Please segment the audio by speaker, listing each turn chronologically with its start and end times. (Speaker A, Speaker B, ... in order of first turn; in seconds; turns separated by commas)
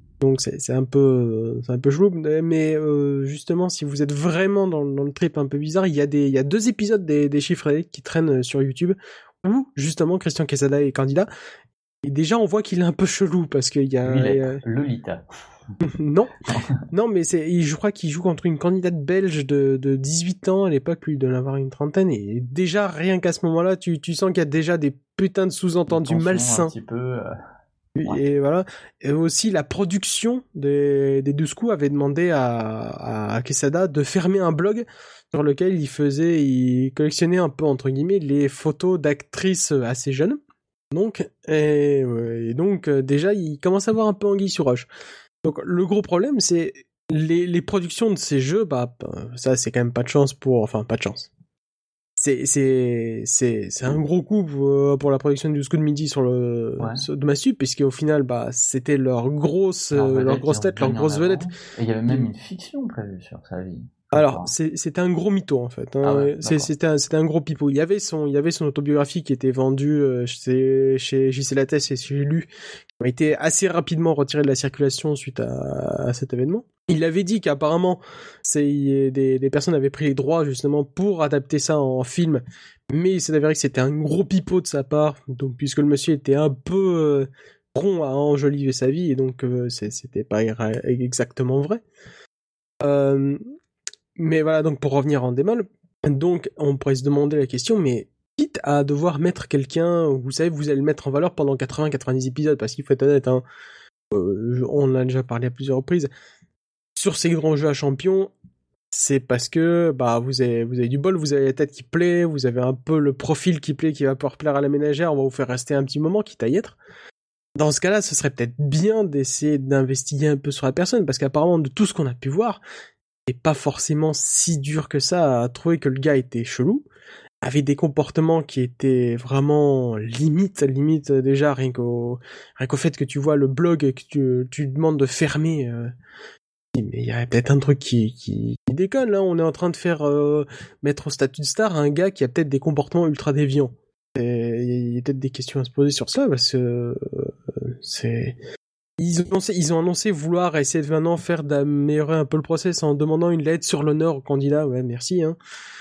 Speaker A: 0.2-11.3, Speaker A: 12.0-14.6, Speaker B: 14.0-15.2, Speaker A: 15.8-16.3, Speaker A: 16.9-26.7, Speaker B: 25.9-27.3, Speaker A: 27.9-40.4, Speaker A: 40.9-44.9, Speaker A: 45.4-51.3, Speaker A: 52.2-61.5, Speaker B: 56.8-57.0, Speaker B: 59.9-64.5, Speaker A: 64.1-72.5, Speaker B: 66.0-66.7, Speaker A: 73.0-91.8, Speaker A: 92.8-93.4, Speaker A: 94.2-103.4, Speaker A: 104.1-106.1, Speaker A: 107.0-108.3, Speaker A: 108.9-116.8, Speaker A: 117.5-122.6, Speaker A: 123.3-126.8, Speaker A: 127.4-135.9, Speaker A: 136.7-148.3, Speaker A: 149.0-155.3